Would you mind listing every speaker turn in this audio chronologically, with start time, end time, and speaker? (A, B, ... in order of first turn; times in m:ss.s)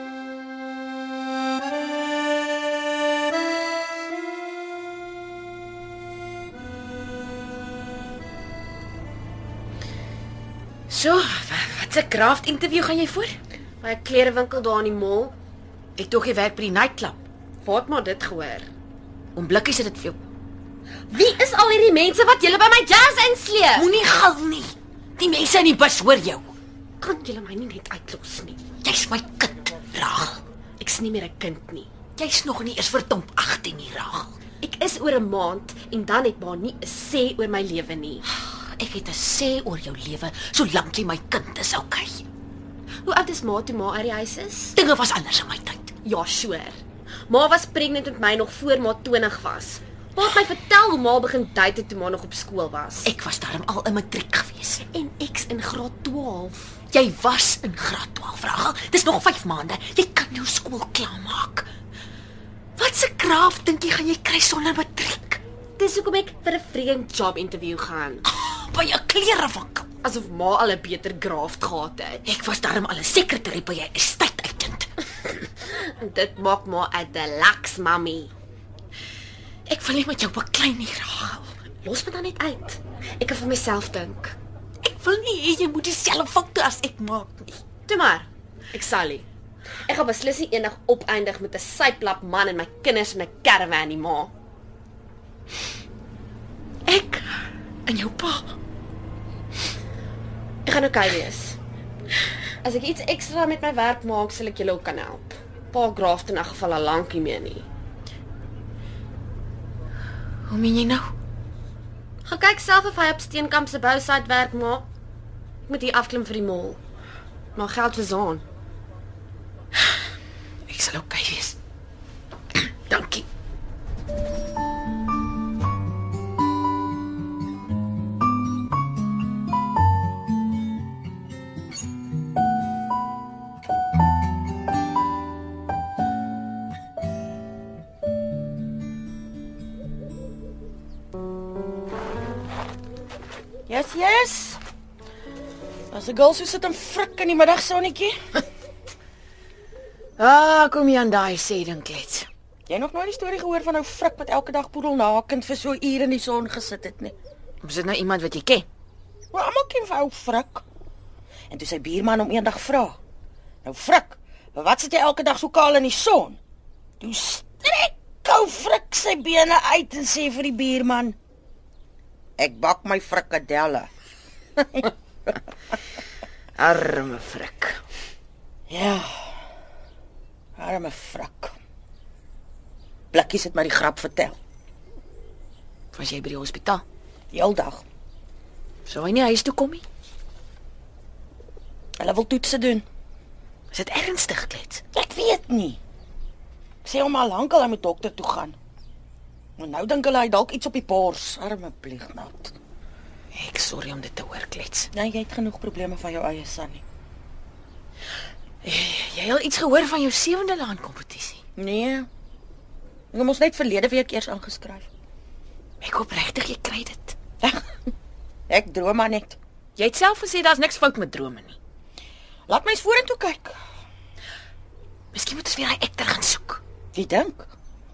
0:10.9-0:13.4 A
0:13.8-0:15.3 B
0:16.0-0:17.2 A
0:17.6-0:18.6 B
0:19.4-0:20.2 A
0:21.1-0:23.8 B
0:23.7-0:26.5 A
0:27.0-0:28.6 B
0:28.7-0:30.4 A
0:30.8-0:31.9 B
0:32.1-0:34.3 A
0:34.6-0:38.2 B
0:38.8-0:42.2 A
0:43.1-0:44.7 B
0:44.7-0:46.0 A
0:46.0-0:46.8 B
0:47.3-0:53.1 B
0:53.0-0:54.9 A
0:55.0-0:56.8 B
0:56.8-1:01.7 A
1:02.8-1:05.4 A
1:05.8-1:08.2 B
1:08.2-1:09.9 A
1:10.0-1:12.2 B
1:12.2-1:14.9 A
1:16.0-1:18.3 B
1:19.7-1:21.5 A
1:21.9-1:24.3 B
1:24.8-1:27.6 A
1:27.9-1:28.3 B
1:28.9-1:29.2 B
1:29.9-1:34.3 B
1:36.9-1:38.5 A
1:40.7-1:41.6 B
1:42.6-1:47.6 B
1:50.5-1:51.1 A
1:52.3-1:54.9 B
1:55.7-1:56.8 B
1:57.6-1:58.4 B
2:00.7-2:01.6 A
2:02.9-2:03.2 A
2:23.7-2:24.6 C
2:25.9-2:28.2 C
2:30.2-2:32.3 A
2:32.7-2:37.2 C
2:37.6-2:38.7 A
2:39.3-2:40.6 C
2:41.5-2:43.0 C
2:43.6-2:46.4 C
2:47.0-2:51.2 C
2:52.4-2:53.9 C
2:56.6-2:57.8 A
2:58.7-2:59.4 C
3:00.6-3:01.6 C
3:03.1-3:04.4 C
3:05.9-3:06.8 A
3:07.3-3:07.8 C
3:08.9-3:09.8 A
3:12.0-3:12.8 C
3:13.7-3:14.8 A
3:14.9-3:15.8 C
3:16.8-3:18.6 C
3:19.6-3:22.6 C
3:23.3-3:24.9 A
3:24.9-3:26.8 C
3:28.6-3:31.4 A
3:31.6-3:32.1 C
3:33.1-3:34.9 C
3:35.8-3:37.2 A
3:37.4-3:37.7 C
3:38.5-3:39.4 C
3:39.8-3:41.6 A
3:42.5-3:43.6 C
3:45.1-3:46.6 A
3:46.9-3:47.5 C